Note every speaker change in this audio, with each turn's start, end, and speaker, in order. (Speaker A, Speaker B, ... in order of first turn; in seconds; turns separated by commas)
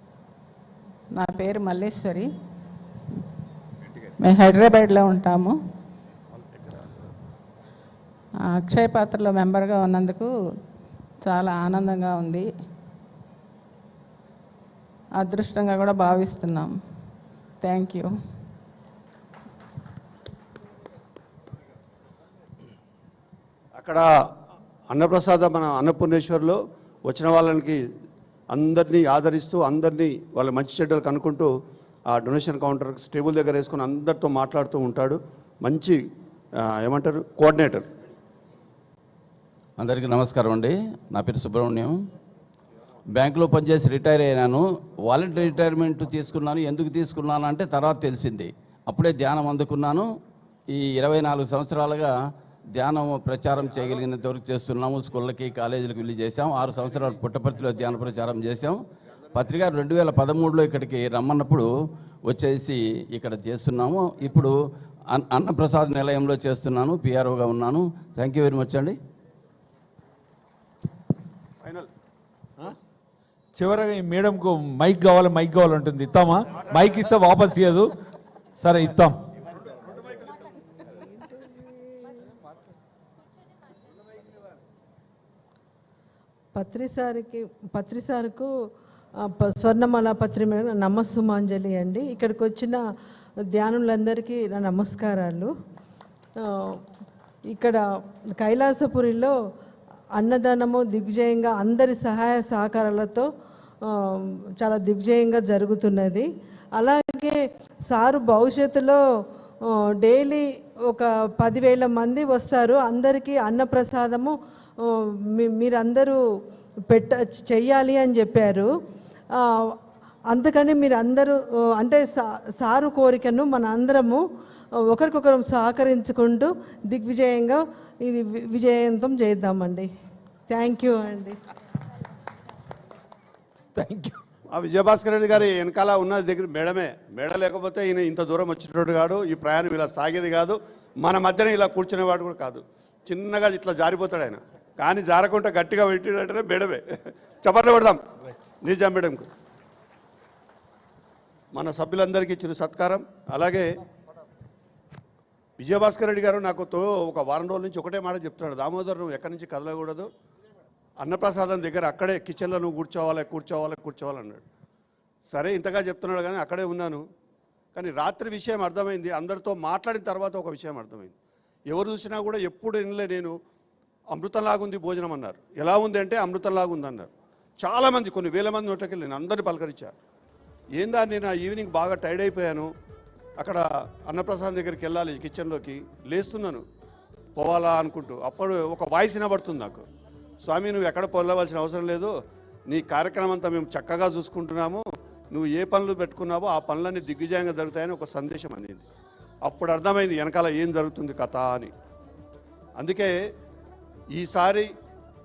Speaker A: 1.1-2.3, Speaker A: 4.2-5.5, Speaker A: 8.5-10.3, Speaker A: 11.2-12.4, Speaker A: 15.2-16.7, Speaker A: 17.6-18.1, Speaker B: 23.8-24.0, Speaker B: 24.9-27.8, Speaker B: 28.5-31.5, Speaker B: 32.1-36.0, Speaker B: 36.8-37.9, Speaker C: 39.8-41.9, Speaker C: 43.1-50.0, Speaker C: 50.7-52.1, Speaker C: 52.7-58.8, Speaker C: 59.3-61.7, Speaker C: 62.2-64.5, Speaker C: 65.1-69.0, Speaker B: 71.6-71.9, Speaker D: 73.6-77.9, Speaker D: 78.6-79.2, Speaker E: 81.0-81.8, Speaker E: 86.5-88.5, Speaker E: 89.2-92.8, Speaker E: 93.5-95.5, Speaker E: 96.4-96.8, Speaker E: 97.5-97.8, Speaker E: 98.4-99.3, Speaker E: 100.2-103.3, Speaker E: 103.8-109.0, Speaker E: 110.0-114.8, Speaker E: 115.3-116.2, Speaker E: 116.9-118.7, Speaker E: 120.3-124.2, Speaker E: 124.8-129.9, Speaker E: 130.5-131.4, Speaker D: 133.8-134.2, Speaker B: 134.5-146.8, Speaker B: 147.4-148.0, Speaker B: 148.6-149.3, Speaker B: 151.5-153.7, Speaker B: 155.6-160.1, Speaker B: 161.0-164.4, Speaker B: 165.3-167.0, Speaker B: 167.7-171.1, Speaker B: 171.7-173.3, Speaker B: 174.1-179.9, Speaker B: 180.8-182.7, Speaker B: 183.4-186.6, Speaker B: 187.4-189.8, Speaker B: 190.4-192.1, Speaker B: 192.7-198.8, Speaker B: 199.4-201.7, Speaker B: 202.8-203.1, Speaker B: 204.1-204.7